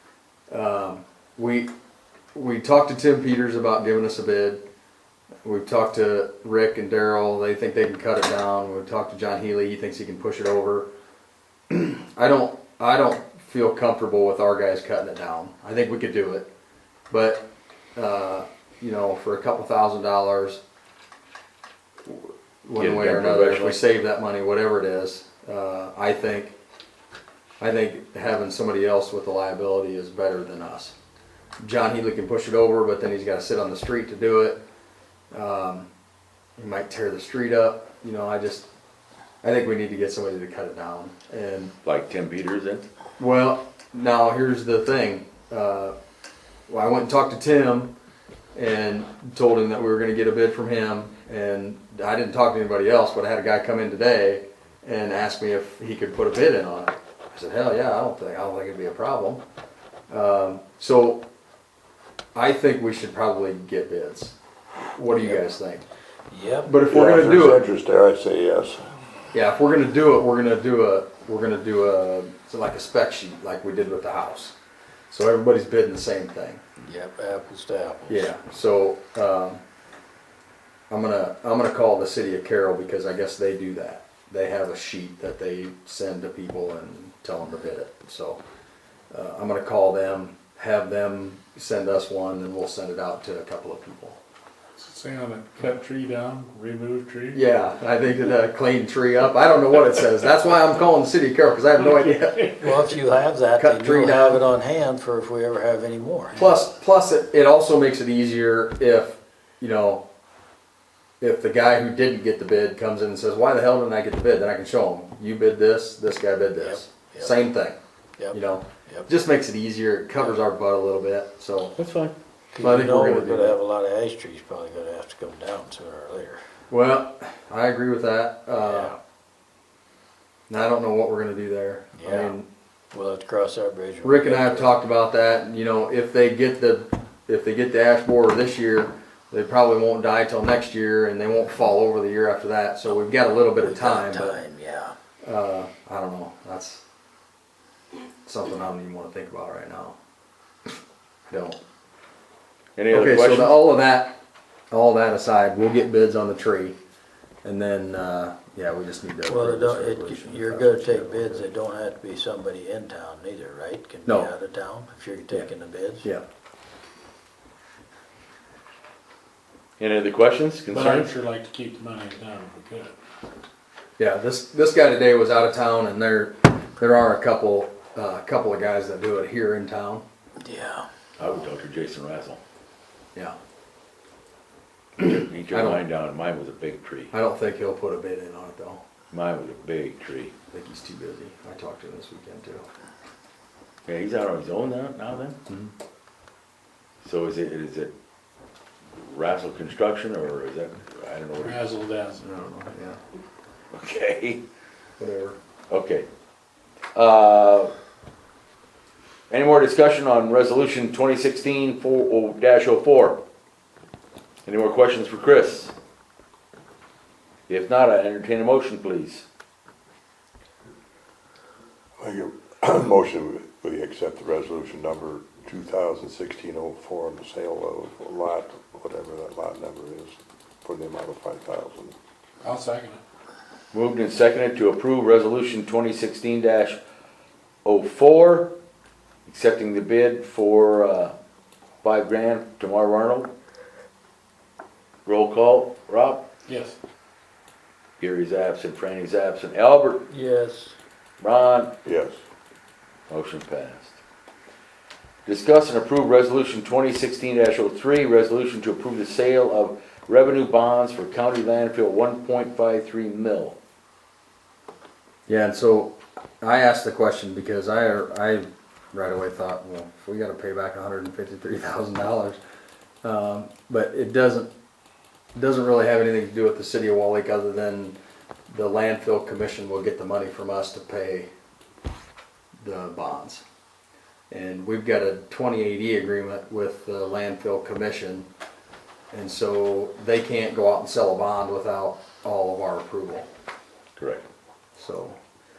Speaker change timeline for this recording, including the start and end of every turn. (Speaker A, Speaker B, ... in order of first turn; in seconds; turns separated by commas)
Speaker A: 0.5-1.7, Speaker A: 2.3-4.6, Speaker A: 5.4-10.9, Speaker A: 11.7-16.5, Speaker A: 17.1-20.6, Speaker A: 22.1-26.6, Speaker B: 22.8-23.8, Speaker A: 27.6-30.9, Speaker A: 31.6-34.6, Speaker A: 35.3-35.9, Speaker A: 36.6-38.7, Speaker A: 39.4-41.7, Speaker B: 41.8-42.9, Speaker A: 43.2-45.9, Speaker A: 46.7-47.9, Speaker A: 48.5-59.4, Speaker A: 60.1-61.2, Speaker A: 62.3-64.3, Speaker A: 64.9-65.8, Speaker C: 66.3-66.7, Speaker A: 66.6-67.7, Speaker D: 66.9-68.8, Speaker A: 69.3-74.5, Speaker A: 75.1-76.6, Speaker C: 76.8-78.3, Speaker A: 78.1-79.6, Speaker A: 80.9-88.4, Speaker A: 89.1-94.2, Speaker E: 94.8-97.4, Speaker A: 97.3-102.9, Speaker E: 101.8-102.5, Speaker C: 102.6-106.4, Speaker A: 103.6-104.4, Speaker A: 106.3-110.0, Speaker A: 111.2-117.8, Speaker C: 116.6-117.5, Speaker C: 118.2-119.1, Speaker A: 118.3-121.8, Speaker B: 121.8-122.1, Speaker C: 122.5-126.4, Speaker A: 122.6-123.6, Speaker A: 126.7-128.9, Speaker C: 128.6-129.0, Speaker A: 130.5-132.5, Speaker C: 132.0-132.4, Speaker C: 132.9-134.8, Speaker A: 134.0-144.4, Speaker C: 143.6-144.9, Speaker A: 145.2-146.8, Speaker A: 148.2-150.0, Speaker A: 151.3-151.6, Speaker B: 152.8-153.6, Speaker A: 152.9-154.2, Speaker A: 154.7-156.8, Speaker A: 157.4-161.5, Speaker C: 159.2-166.1, Speaker A: 164.1-164.3, Speaker B: 169.8-171.1, Speaker E: 170.7-172.9, Speaker A: 174.0-180.0, Speaker C: 180.4-180.9, Speaker B: 181.2-182.4, Speaker B: 185.0-187.1, Speaker A: 185.5-185.8, Speaker A: 187.1-188.8, Speaker B: 189.1-190.3, Speaker A: 190.5-192.7, Speaker B: 193.8-195.4, Speaker A: 195.5-195.7, Speaker B: 197.0-197.9, Speaker B: 198.9-201.7, Speaker E: 201.4-202.2, Speaker A: 202.2-203.0, Speaker B: 203.7-204.4, Speaker A: 205.0-205.4, Speaker B: 205.7-206.1, Speaker B: 206.9-207.7, Speaker B: 209.3-213.2, Speaker B: 214.4-215.7, Speaker B: 217.5-219.2, Speaker D: 222.0-231.9, Speaker E: 232.4-233.0, Speaker B: 233.7-236.8, Speaker B: 237.6-238.5, Speaker B: 239.2-241.1, Speaker B: 241.8-243.3, Speaker B: 245.1-246.2, Speaker E: 246.5-246.8, Speaker B: 248.0-250.1, Speaker C: 250.1-250.8, Speaker B: 251.2-251.7, Speaker D: 251.8-252.2, Speaker B: 253.1-254.0, Speaker B: 255.2-263.6, Speaker A: 265.3-272.4, Speaker A: 273.0-274.5, Speaker A: 275.3-277.9, Speaker A: 278.5-281.3, Speaker A: 282.6-283.4, Speaker A: 284.3-288.3, Speaker A: 289.1-293.3, Speaker B: 294.0-294.2, Speaker A: 294.8-295.1